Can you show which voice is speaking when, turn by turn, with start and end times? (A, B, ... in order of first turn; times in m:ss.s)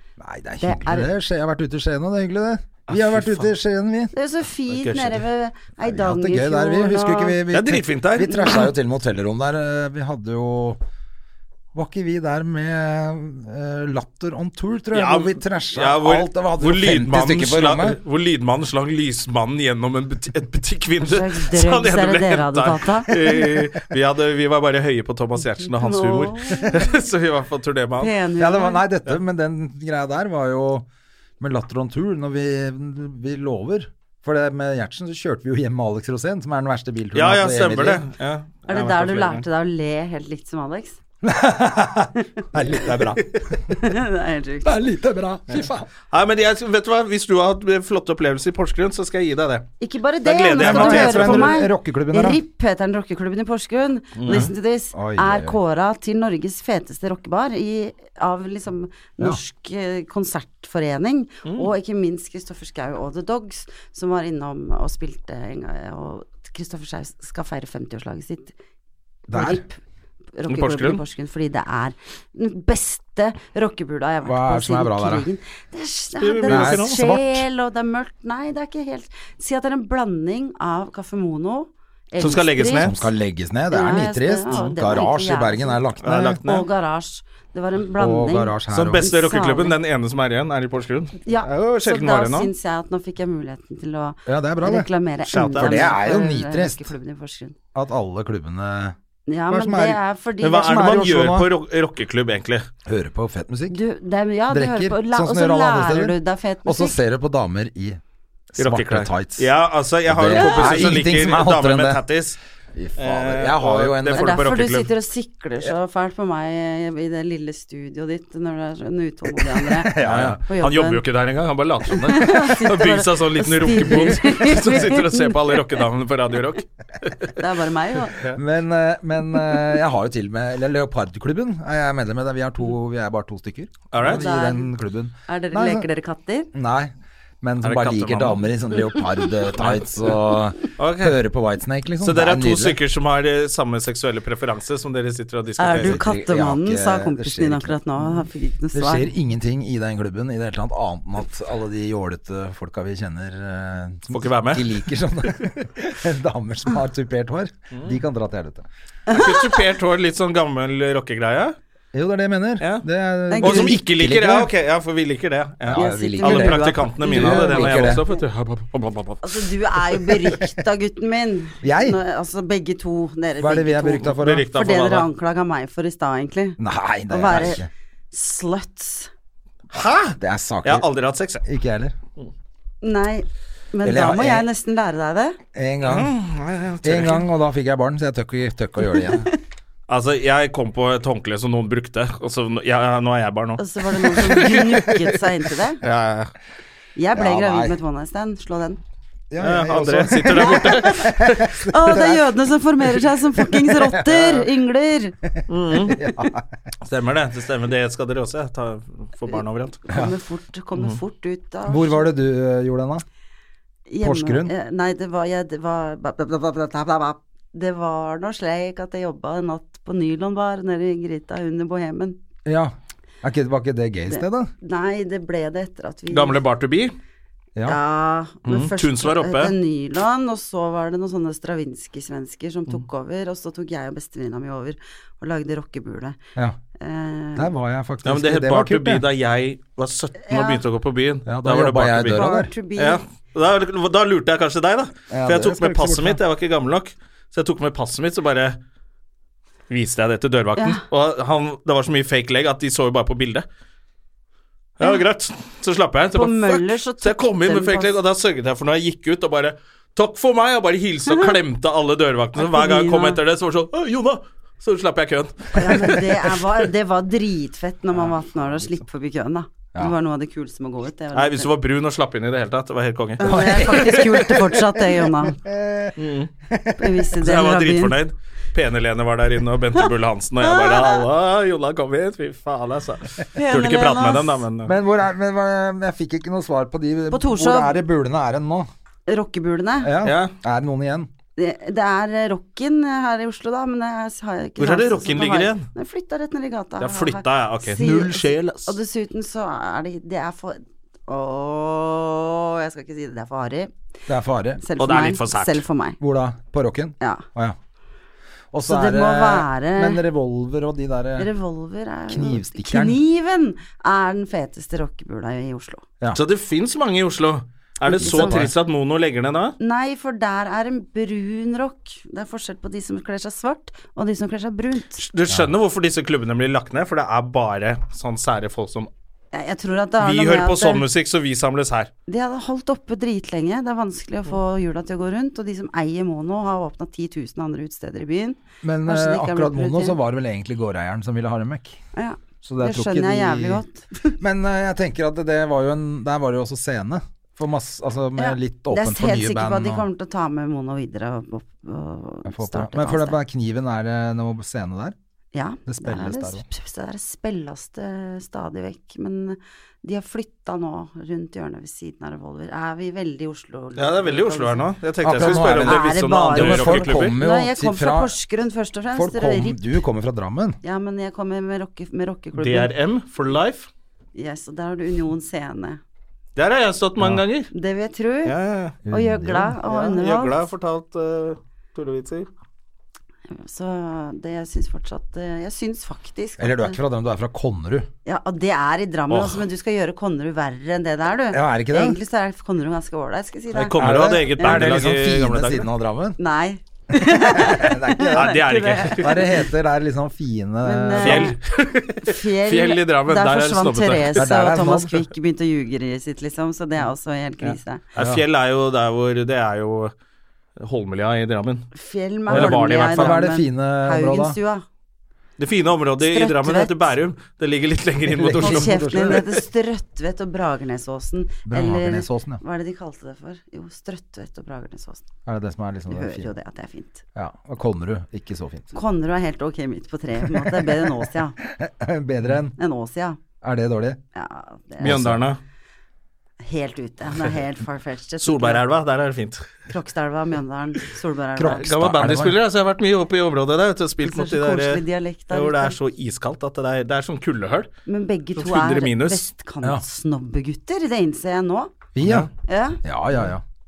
0:00.2-0:04.1 A
0:00.6-0:01.1 B
0:02.9-0:03.5 C
0:04.1-0:07.4 B
0:04.7-0:05.2 C
0:05.8-0:10.8 A
0:07.5-0:08.7 C
0:11.7-0:18.0 A
0:14.9-0:28.1 C
0:21.0-0:23.1 B
0:25.7-0:26.8 B
0:28.0-0:28.8 B
0:28.4-0:30.8 A
0:31.4-0:38.0 A
0:37.1-0:39.4 C
0:38.7-0:41.0 B
0:41.2-0:43.9 A
0:43.7-0:44.7 B
0:44.6-0:45.9 A
0:45.5-0:49.7 C
0:49.8-1:08.5 B
0:50.2-0:51.6 C
0:50.6-0:52.4 A
0:54.2-0:54.5 C
0:54.3-0:55.6 A
1:09.3-1:09.6 A
1:09.3-1:09.8 B
1:10.4-1:23.1 B
1:10.5-1:11.0 C
1:14.2-1:15.2 A
1:16.2-1:17.0 C
1:16.5-1:17.4 A
1:22.2-1:22.9 C
1:22.7-1:26.4 A
1:23.7-1:25.8 B
1:26.0-1:26.7 C
1:26.4-1:29.8 B
1:28.0-1:29.1 A
1:28.7-1:32.5 C
1:31.2-1:37.6 B
1:34.2-1:34.9 A
1:35.3-1:35.9 C
1:35.6-1:36.9 A
1:37.7-1:38.9 A
1:39.3-1:40.9 B
1:39.5-1:40.0 A
1:40.4-1:42.7 C
1:40.5-1:41.5 A
1:42.8-1:43.8 A
1:43.7-1:47.0 B
1:44.5-1:48.0 A
1:48.5-1:49.5 A
1:48.6-1:52.4 C
1:50.0-1:52.0 A
1:50.3-1:50.9 B
1:52.7-1:54.3 A
1:53.0-1:54.9 C
1:54.1-2:01.0 B
1:59.5-2:00.4 A
2:00.0-2:07.3 C
2:01.9-2:05.8 B
2:07.3-2:08.2 B
2:08.1-2:08.4 C
2:08.3-2:15.9 A
2:13.9-2:14.2 C
2:14.0-2:14.7 B
2:15.3-2:16.5 B
2:16.5-2:22.8 A
2:17.6-2:18.4 C
2:19.5-2:20.1 C
2:20.8-2:21.2 C
2:22.0-2:26.0 C
2:25.6-2:29.1 B
2:25.7-2:27.8 A
2:28.7-2:38.6 A
2:34.1-2:34.8 C
2:37.7-2:38.0 C
2:39.1-2:39.5 B
2:39.1-2:41.6 C
2:41.9-2:44.5 A
2:42.6-2:42.8 C
2:43.3-2:43.8 B
2:43.4-2:50.3 C
2:45.6-2:48.0 A
2:45.7-2:48.1 B
2:49.2-2:59.1 B
2:51.6-2:52.0 A
2:53.4-2:54.5 A
2:54.1-2:55.1 C
2:56.6-2:57.7 A
2:59.7-3:01.4 C
3:00.2-3:00.8 A
3:01.4-3:01.9 A
3:02.8-3:05.4 B
3:03.8-3:04.5 A
3:05.5-3:06.1 A
3:05.8-3:07.3 C
3:06.8-3:09.3 A
3:09.9-3:15.3 C
3:13.6-3:15.8 B
3:15.8-3:16.3 C
3:17.0-3:18.8 B
3:17.1-3:17.8 A
3:19.3-3:22.3 A
3:19.4-3:21.6 C
3:20.4-3:25.2 B
3:23.4-3:24.5 A
3:25.2-3:26.5 A
3:25.5-3:26.0 C
3:26.8-3:29.8 C
3:29.8-3:32.1 B
3:31.7-3:33.0 A
3:33.9-3:42.2 B
3:34.0-3:34.5 A
3:42.4-3:44.5 A
3:44.1-3:46.4 B
3:46.1-3:46.9 C
3:47.6-3:56.2 B
3:48.4-3:49.5 C
3:56.8-3:57.5 B
3:57.4-3:59.0 A
3:58.0-4:08.6 C
4:00.2-4:00.6 B
4:01.2-4:02.5 A
4:02.1-4:03.0 B
4:05.1-4:06.2 A
4:09.7-4:13.4 C
4:10.6-4:10.8 B
4:14.8-4:26.5 C
4:16.1-4:18.0 B
4:22.4-4:23.2 B
4:25.5-4:31.5 B
4:27.9-4:28.7 C
4:31.1-4:34.4 C
4:33.2-4:35.4 B
4:33.2-4:34.5 A
4:35.2-4:36.0 A
4:36.0-4:36.3 C
4:36.5-4:37.1 A
4:36.8-4:38.0 B
4:37.2-4:44.7 C
4:40.4-4:41.0 B
4:43.3-4:44.4 B
4:44.6-4:48.7 A
4:47.1-4:47.8 B
4:49.1-4:49.9 B
4:49.8-4:51.1 A
4:50.0-4:50.3 C
4:51.4-5:03.7 B
4:54.6-4:55.7 C
4:56.8-4:58.7 C
5:04.1-5:04.6 A
5:04.6-5:06.0 B
5:04.8-5:05.6 C
5:06.0-5:07.6 A
5:07.0-5:07.2 B
5:08.5-5:11.3 A
5:08.6-5:10.0 B
5:11.2-5:15.8 B
5:12.1-5:13.0 A
5:16.1-5:19.6 C
5:17.8-5:18.5 B
5:18.0-5:18.5 A
5:19.6-5:25.0 B
5:25.0-5:28.9 C
5:29.3-5:30.8 B
5:30.0-5:31.9 C
5:32.1-5:40.0 B
5:38.6-5:41.8 A
5:41.9-5:44.2 B
5:42.4-5:43.6 A
5:44.2-5:49.8 A
5:48.2-5:53.2 B
5:52.2-5:54.9 A
5:55.3-6:09.6 B
5:55.6-5:56.4 A
6:03.8-6:07.2 C
6:05.0-6:08.1 A
6:08.9-6:10.6 A
6:10.6-6:12.7 B
6:12.3-6:13.7 C
6:14.1-6:15.8 B
6:16.4-6:17.5 C
6:17.5-6:18.3 B
6:18.2-6:18.8 C
6:18.8-6:19.6 A
6:18.9-6:20.4 B
6:19.7-6:22.3 C
6:23.3-6:26.8 B
6:26.4-6:27.9 A
6:28.0-6:34.6 B
6:29.1-6:29.4 C
6:31.3-6:32.0 A
6:33.5-6:35.7 C
6:33.8-6:36.2 A
6:36.2-6:39.4 B
6:37.0-6:41.3 A
6:38.1-6:39.2 C
6:40.6-6:41.4 B
6:41.0-6:44.3 C
6:42.0-6:47.8 B
6:44.1-6:45.0 A
6:47.4-6:49.9 C
6:48.0-6:48.2 A
6:50.6-6:51.7 C
6:51.7-6:54.6 B
6:52.3-6:53.2 C
6:52.3-6:54.4 A
6:55.4-6:59.2 C
6:56.0-6:56.8 B
6:58.1-6:59.2 A
6:58.4-7:05.0 B
7:01.5-7:02.4 A
7:05.2-7:06.3 A
7:05.9-7:07.0 B
7:07.1-7:08.7 A
7:08.7-7:11.4 B
7:10.2-7:12.6 A
7:12.6-7:13.2 B
7:13.4-7:14.0 A
7:14.1-7:15.1 B
7:14.8-7:15.2 A
7:14.8-7:15.4 C
7:16.4-7:18.6 B
7:18.2-7:19.5 C
7:19.7-7:21.6 B
7:21.4-7:22.3 A
7:21.6-7:27.7 C
7:24.0-7:25.8 B
7:27.8-7:31.7 B
7:28.4-7:29.2 C
7:31.9-7:32.3 A
7:32.0-7:32.3 C
7:32.4-7:32.8 B
7:32.8-7:33.4 A